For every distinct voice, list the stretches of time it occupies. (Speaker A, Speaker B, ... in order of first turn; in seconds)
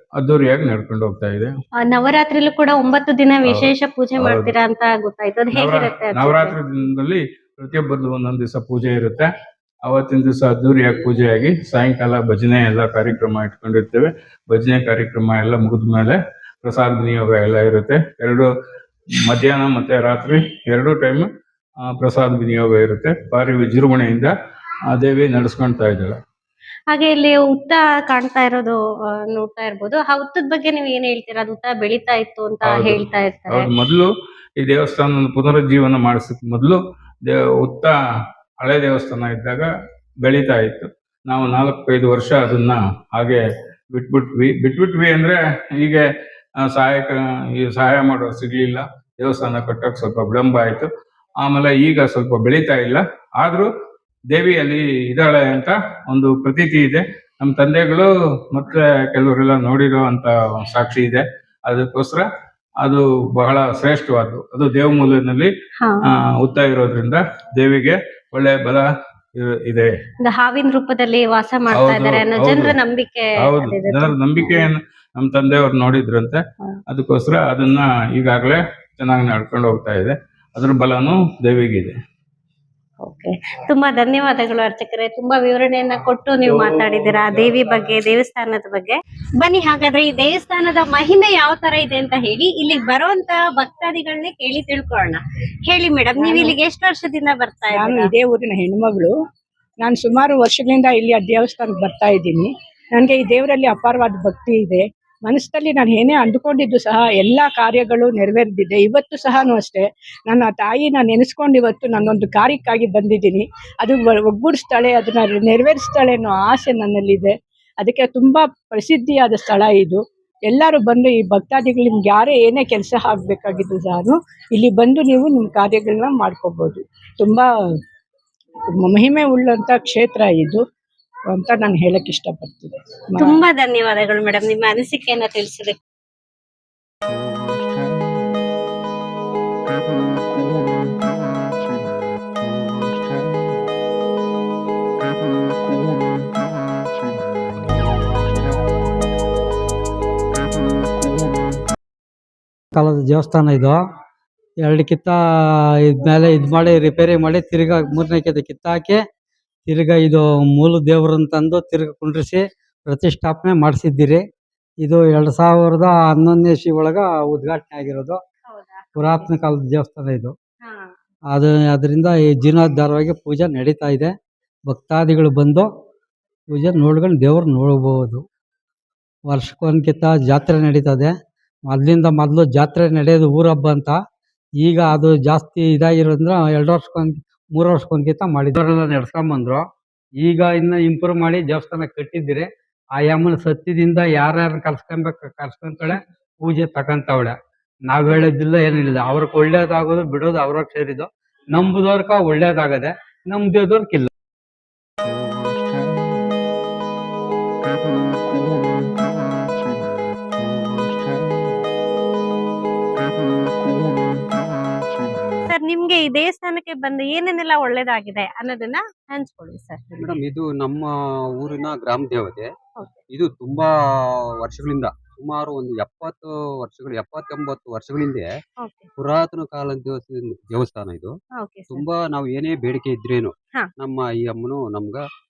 Speaker A: 0.2-1.5, 3.5-4.5, 5.5-9.3, 9.9-18.5, 19.3-21.3, 21.9-24.3, 24.9-26.2, 32.6-34.1, 34.6-38.0, 38.6-39.7, 40.2-43.4, 43.9-46.0, 46.7-50.9, 51.4-53.7, 54.3-62.2, 62.8-65.5, 66.1-68.9, 69.4-69.9, 71.7-72.8, 73.4-82.0
Speaker B: 1.8-6.6, 26.9-28.8, 29.3-33.7, 70.2-74.7, 83.0-98.1, 133.2-135.8, 168.5-169.3, 170.6-170.9, 215.5-220.1, 228.6-228.9, 231.4-231.8
Speaker C: 96.2-96.6, 97.7-99.1, 99.8-127.5, 128.8-130.6, 131.3-133.4
Speaker D: 152.8-153.8, 154.6-155.2, 155.8-159.0, 159.7-164.2, 164.8-168.2, 169.0-170.3, 171.3-174.2, 174.7-175.7, 176.5-178.2, 179.3-181.2, 181.7-184.0, 184.6-189.7, 190.2-197.4, 197.9-204.1
Speaker E: 220.0-220.9, 221.4-222.5, 223.1-223.7, 224.4-228.3, 229.0-231.1, 231.7-235.0